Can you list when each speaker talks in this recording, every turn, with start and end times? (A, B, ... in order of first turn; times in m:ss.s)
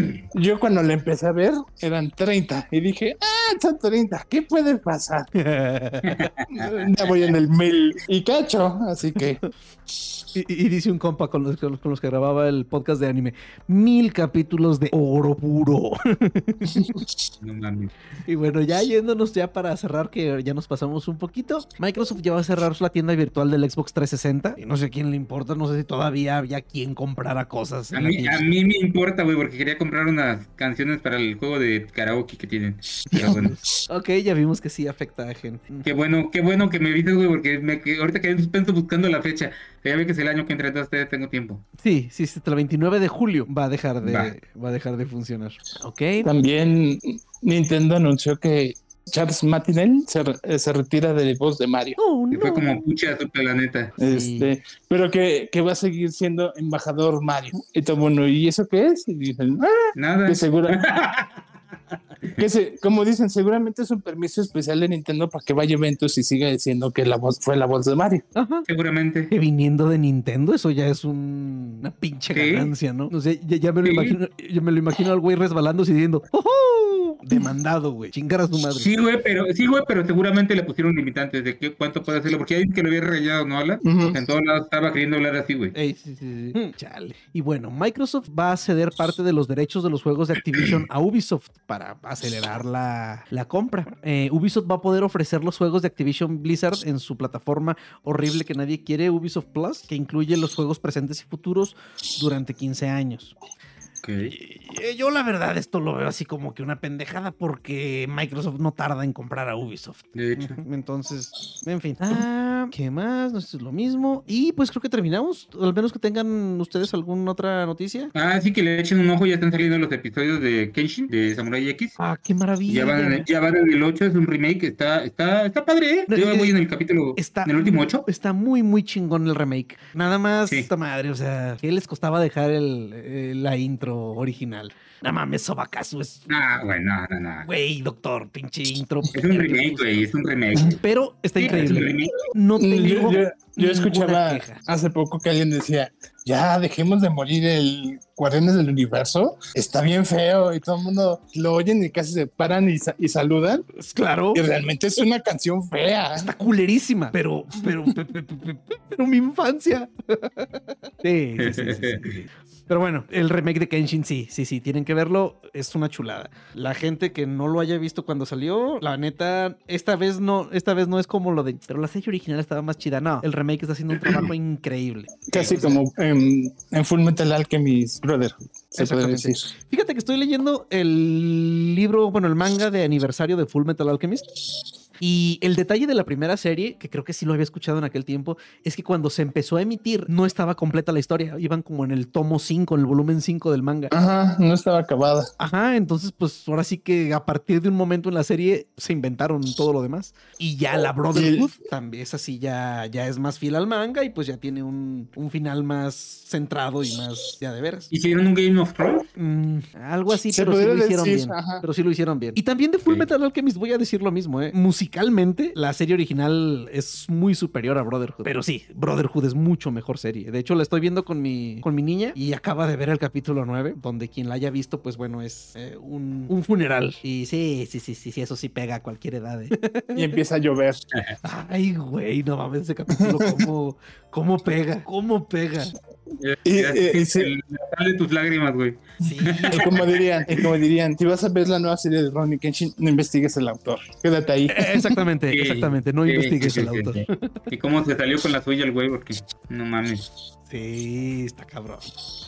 0:00.3-0:05.3 A
0:05.4-0:06.3 B
0:06.1-0:06.7 C
0:06.5-0:09.4 A
0:10.4-0:17.0 B
0:17.4-0:17.9 C
0:18.2-0:28.4 B
0:27.9-0:33.6 C
0:33.2-0:35.9 B
0:35.8-0:41.6 C
0:41.8-0:46.3 B
0:44.0-0:44.3 C
0:46.2-0:52.0 A
0:52.0-0:52.8 B
0:52.3-0:53.9 C
0:54.0-1:00.8 A
0:54.0-0:54.5 B
1:00.0-1:01.4 C
1:02.4-1:08.2 A
1:08.4-1:08.7 B
1:08.7-1:09.3 C
1:09.3-1:18.9 B
1:12.3-1:12.7 C
1:13.8-1:14.2 C
1:18.8-1:25.7 C
1:23.8-1:24.2 A
1:25.7-1:43.4 B
1:44.0-1:44.4 C
1:44.3-1:58.1 B
1:50.2-1:50.6 C
1:58.2-2:02.0 C
2:02.0-2:03.3 B
2:02.7-2:08.0 C
2:06.1-2:06.6 B
2:07.2-2:16.3 B
2:16.3-2:17.5 C
2:17.4-2:20.1 B
2:19.1-2:20.8 C
2:20.7-2:24.6 B
2:21.4-2:22.2 C
2:22.6-2:33.7 A
2:33.8-2:34.4 B
2:34.3-2:36.3 A
2:36.2-2:55.8 B
2:41.4-2:42.2 C
2:55.3-2:59.5 A
2:58.8-3:04.2 B
3:05.0-3:14.0 B
3:13.9-3:15.3 A
3:15.4-3:27.9 B
3:21.1-3:21.5 A
3:27.9-3:29.1 C
3:29.2-3:50.1 B
3:30.3-3:31.6 A
3:49.9-3:50.8 A
3:51.2-3:55.8 B
3:52.9-3:53.5 A
3:56.2-3:59.9 C
3:56.4-3:57.3 A
3:59.0-3:59.8 B
3:59.5-4:05.0 A
4:04.5-4:07.4 B
4:05.3-4:10.1 C
4:10.5-4:11.9 B